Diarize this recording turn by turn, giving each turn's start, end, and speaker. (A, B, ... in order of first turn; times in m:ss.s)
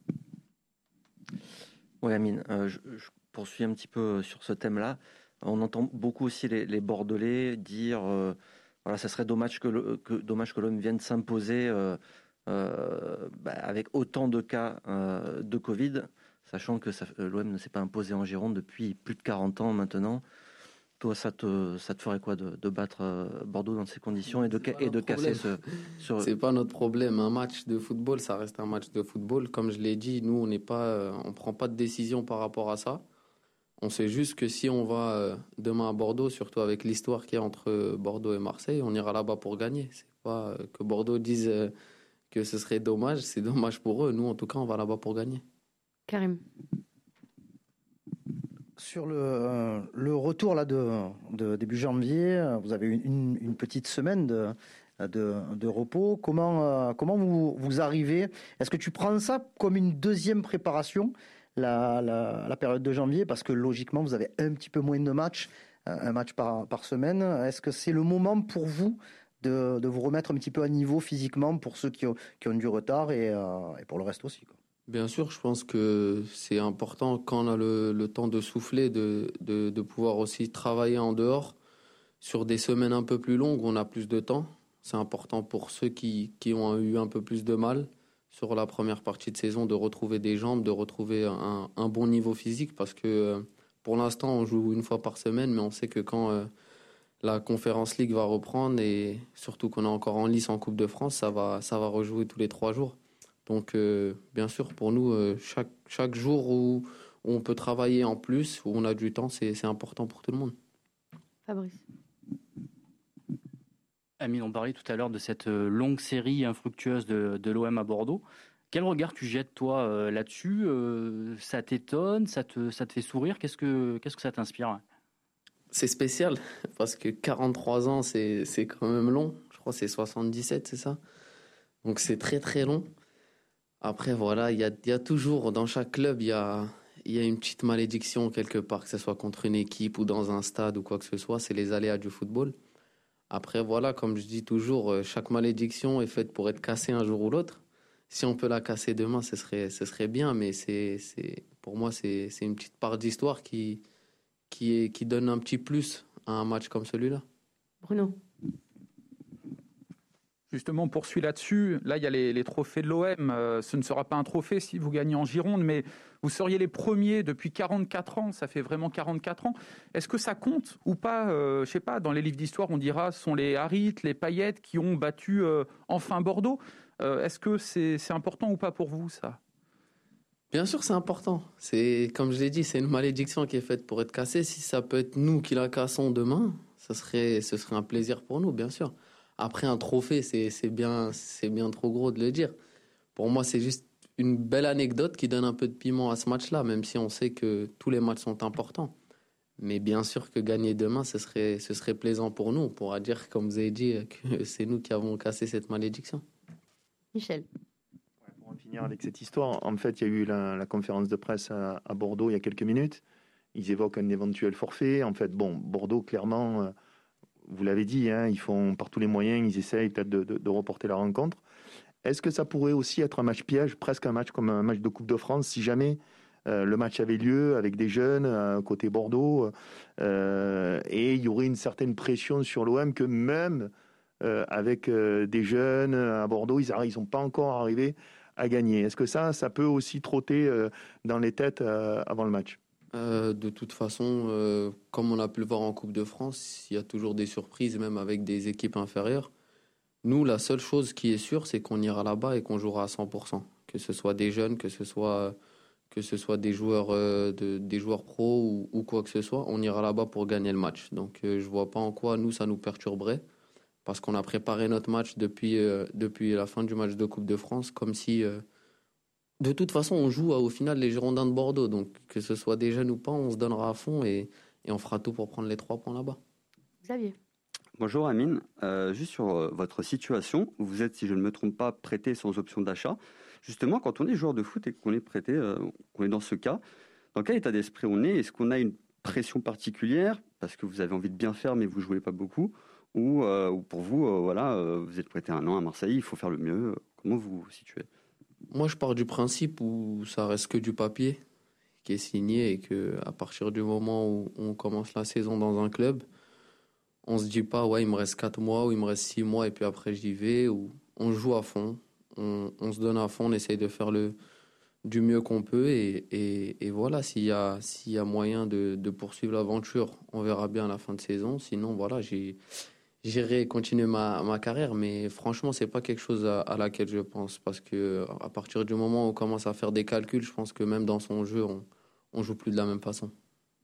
0:02.0-0:20.2 A
0:21.0-0:26.3 A
0:24.4-0:33.0 B
0:33.8-0:41.7 B
0:42.3-0:45.4 B
0:46.1-0:46.4 C
0:48.8-1:14.6 D
1:14.9-1:21.6 B
1:22.2-1:36.5 B
1:37.2-1:50.5 B
1:51.5-1:51.8 C
1:54.2-2:04.8 E
2:05.7-2:11.0 B
2:11.8-2:12.9 B
2:13.8-2:22.5 B
2:23.3-2:33.8 B
2:34.5-2:37.2 B
2:37.8-2:38.2 C
2:40.5-2:59.4 F
3:00.5-3:12.5 B
3:13.1-3:18.9 B
3:19.6-3:26.2 B
3:27.1-3:27.5 C
3:28.4-3:33.0 G
3:33.6-3:36.7 G
3:37.5-3:41.4 G
3:42.0-4:02.6 G
4:02.9-4:09.3 B
4:10.0-4:15.4 B
4:15.9-4:23.2 B
4:23.8-4:28.4 B
4:29.4-4:36.2 B
4:36.8-4:37.2 C
4:37.8-4:46.6 H
4:47.1-4:57.9 H
4:58.5-5:01.2 B
5:01.8-5:06.0 B
5:07.0-5:14.2 B
5:14.8-5:22.4 B
5:23.0-5:33.1 B